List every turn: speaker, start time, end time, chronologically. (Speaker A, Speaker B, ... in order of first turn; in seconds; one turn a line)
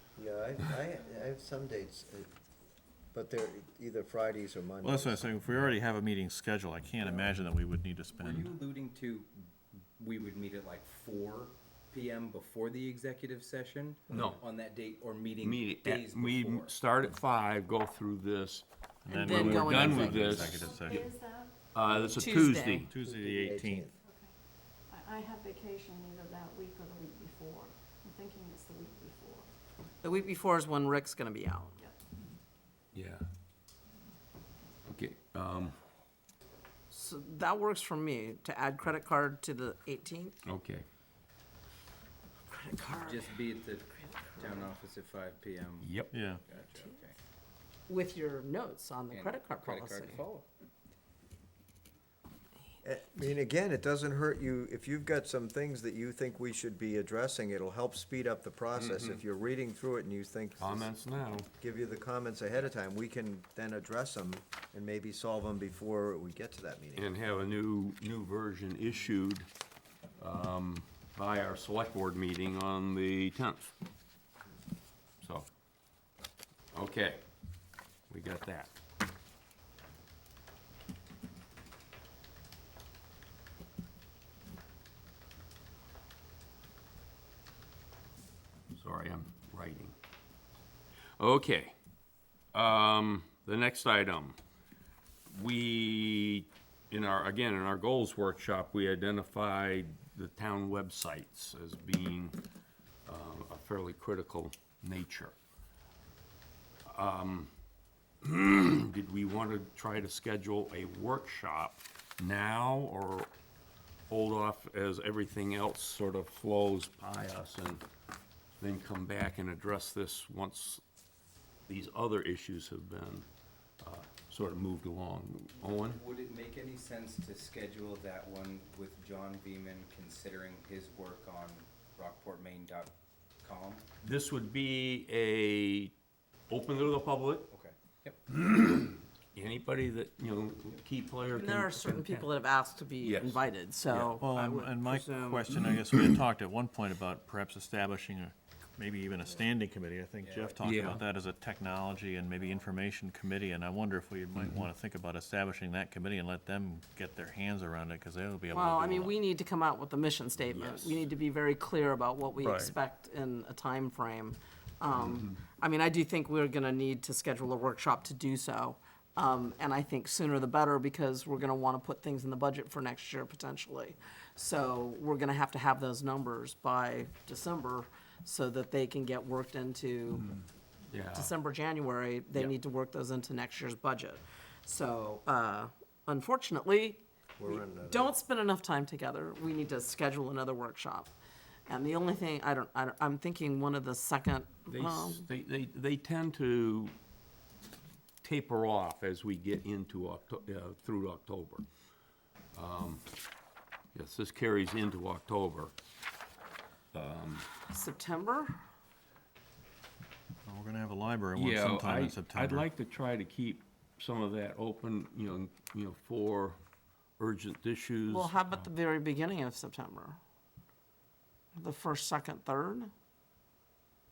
Speaker A: 0.2-2.3
Speaker A: 3.1-5.3
Speaker B: 4.8-8.5
Speaker A: 7.0-7.3
Speaker C: 8.1-9.3
Speaker C: 10.0-16.7
Speaker D: 14.1-14.4
Speaker D: 15.4-18.6
Speaker B: 19.1-21.1
Speaker E: 19.1-20.6
Speaker D: 19.2-20.6
Speaker F: 20.0-21.5
Speaker D: 21.7-22.9
Speaker E: 22.2-22.9
Speaker B: 22.9-23.9
Speaker A: 23.0-23.9
Speaker F: 24.1-24.3
Speaker F: 24.9-29.5
Speaker E: 30.0-31.8
Speaker D: 32.9-33.2
Speaker D: 34.9-35.8
Speaker E: 36.9-40.4
Speaker D: 40.5-40.9
Speaker E: 42.5-43.4
Speaker C: 42.9-47.1
Speaker E: 43.9-44.7
Speaker D: 45.8-46.1
Speaker B: 46.1-46.4
Speaker E: 47.9-50.2
Speaker C: 49.1-50.5
Speaker A: 52.8-60.9
Speaker D: 58.7-59.2
Speaker D: 60.6-61.5
Speaker A: 61.6-67.1
Speaker D: 67.0-69.5
Speaker D: 70.2-73.7
Speaker D: 75.2-75.5
Speaker D: 76.7-77.2
Speaker D: 78.1-78.7
Speaker D: 88.7-90.0
Speaker D: 91.2-91.7
Speaker D: 92.5-94.4
Speaker D: 95.3-102.4
Speaker D: 103.1-105.3
Speaker D: 106.9-107.5
Speaker D: 108.2-113.3
Speaker D: 114.1-117.8
Speaker D: 118.6-120.8
Speaker D: 121.7-123.3
Speaker D: 123.8-126.0
Speaker C: 125.6-133.9
Speaker D: 134.0-135.9
Speaker D: 136.5-137.5
Speaker C: 137.5-138.2
Speaker D: 138.3-142.3
Speaker E: 141.3-145.5
Speaker D: 143.0-144.2
Speaker B: 144.2-159.2
Speaker D: 145.5-146.2
Speaker C: 150.2-150.8
Speaker D: 150.6-151.0
Speaker D: 154.3-154.6
Speaker E: 158.5-180.3
Speaker D: 160.5-161.1
Speaker B: 162.4-162.7
Speaker D: 164.9-165.4
Speaker D: 180.9-181.3
Speaker E: 181.1-191.1
Speaker A: 187.4-188.2
Speaker E: 191.7-195.3
Speaker D: 194.7-196.9
Speaker D: 198.2-201.7
Speaker D: 202.5-203.1
Speaker D: 203.9-205.7
Speaker D: 206.9-207.5
Speaker E: 207.7-208.6
Speaker B: 210.5-212.7
Speaker D: 211.3-216.6
Speaker D: 217.2-218.7
Speaker E: 218.1-220.2
Speaker E: 221.6-222.9